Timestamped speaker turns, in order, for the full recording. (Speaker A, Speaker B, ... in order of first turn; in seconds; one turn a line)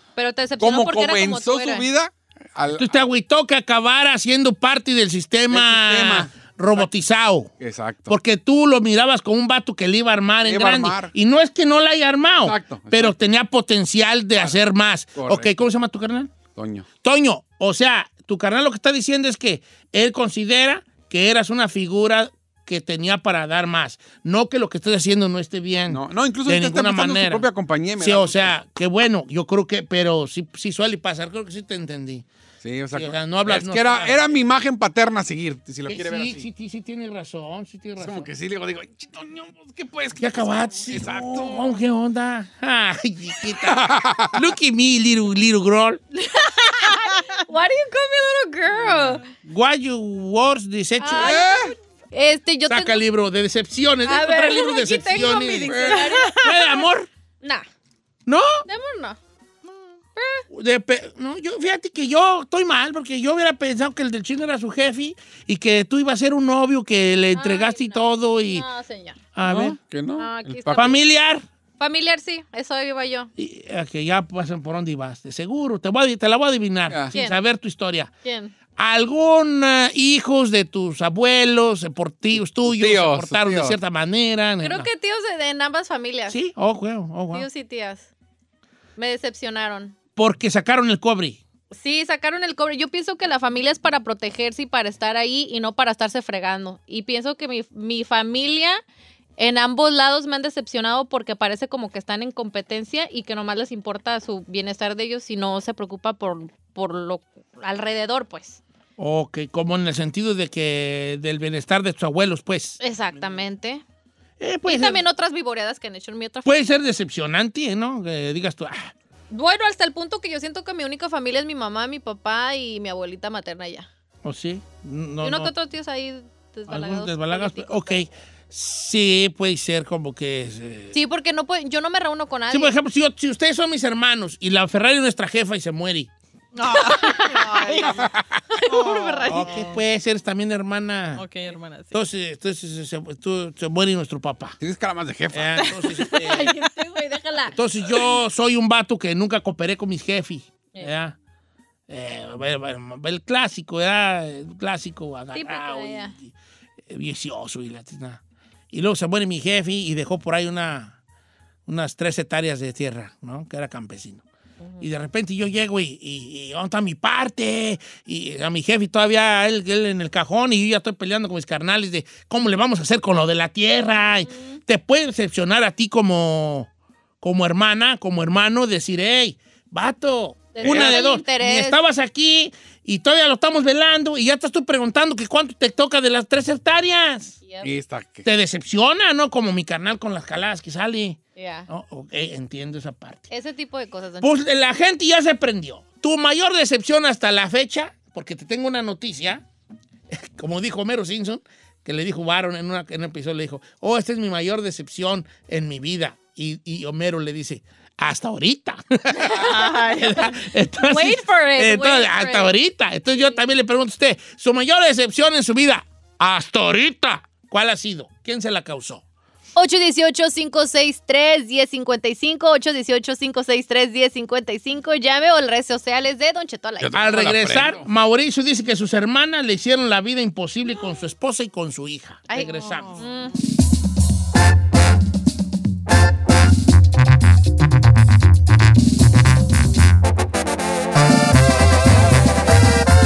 Speaker A: 0.1-1.9
Speaker B: 0.6-3.0
Speaker C: 2.7-7.5
Speaker B: 5.5-6.9
Speaker B: 7.6-8.2
Speaker C: 8.1-16.3
Speaker B: 10.4-11.1
Speaker B: 12.4-13.1
Speaker B: 15.2-15.5
Speaker B: 16.6-16.9
Speaker C: 17.0-27.5
Speaker B: 25.9-28.5
Speaker C: 28.0-32.2
Speaker B: 32.6-36.5
Speaker C: 32.9-34.4
Speaker C: 35.9-38.3
Speaker B: 38.0-41.7
Speaker C: 40.2-46.0
Speaker B: 43.6-44.4
Speaker A: 46.1-49.2
Speaker C: 49.1-51.4
Speaker A: 51.0-53.0
Speaker B: 51.1-51.7
Speaker C: 52.7-57.1
Speaker A: 54.0-56.8
Speaker B: 55.7-56.0
Speaker D: 55.9-56.4
Speaker A: 57.4-57.7
Speaker C: 58.2-58.6
Speaker A: 58.6-59.2
Speaker A: 60.1-60.4
Speaker C: 60.5-68.6
Speaker A: 67.3-69.2
Speaker C: 69.3-69.8
Speaker B: 69.4-71.0
Speaker A: 70.2-71.0
Speaker C: 70.7-71.4
Speaker A: 71.8-73.3
Speaker C: 73.4-78.1
Speaker A: 77.1-77.4
Speaker A: 78.2-78.5
Speaker C: 78.8-84.9
Speaker B: 82.5-83.8
Speaker A: 84.6-86.4
Speaker C: 86.3-87.5
Speaker A: 87.3-88.1
Speaker A: 89.0-89.9
Speaker C: 90.2-91.4
Speaker A: 91.7-98.8
Speaker A: 99.4-108.6
Speaker C: 109.0-113.4
Speaker A: 112.8-113.8
Speaker C: 114.4-115.0
Speaker A: 114.6-116.7
Speaker C: 116.4-118.9
Speaker A: 119.3-123.9
Speaker C: 124.2-125.5
Speaker A: 125.2-128.0
Speaker C: 126.7-130.9
Speaker A: 130.9-132.7
Speaker C: 132.5-136.1
Speaker D: 136.5-138.1
Speaker A: 136.7-139.7
Speaker B: 138.0-138.4
Speaker D: 138.7-139.8
Speaker C: 139.3-141.3
Speaker D: 141.2-142.0
Speaker C: 141.9-144.6
Speaker B: 144.6-145.9
Speaker C: 145.3-146.5
Speaker D: 145.6-146.5
Speaker A: 146.2-147.6
Speaker C: 147.5-151.2
Speaker C: 151.9-156.3
Speaker A: 155.3-156.2
Speaker C: 156.9-160.9
Speaker C: 161.7-164.2
Speaker A: 164.6-164.9
Speaker C: 164.8-176.7
Speaker A: 174.3-174.6
Speaker C: 177.2-187.4
Speaker A: 180.5-181.8
Speaker B: 180.6-181.0
Speaker A: 187.4-187.7
Speaker B: 187.6-188.3
Speaker C: 188.2-193.3
Speaker A: 191.3-191.7
Speaker A: 193.3-194.3
Speaker C: 194.2-199.4
Speaker C: 200.1-219.0
Speaker D: 209.2-212.4
Speaker A: 209.7-209.9
Speaker A: 211.4-212.5
Speaker A: 219.5-227.0
Speaker B: 226.8-227.9
Speaker C: 226.9-233.0
Speaker A: 232.3-233.4
Speaker D: 232.5-233.0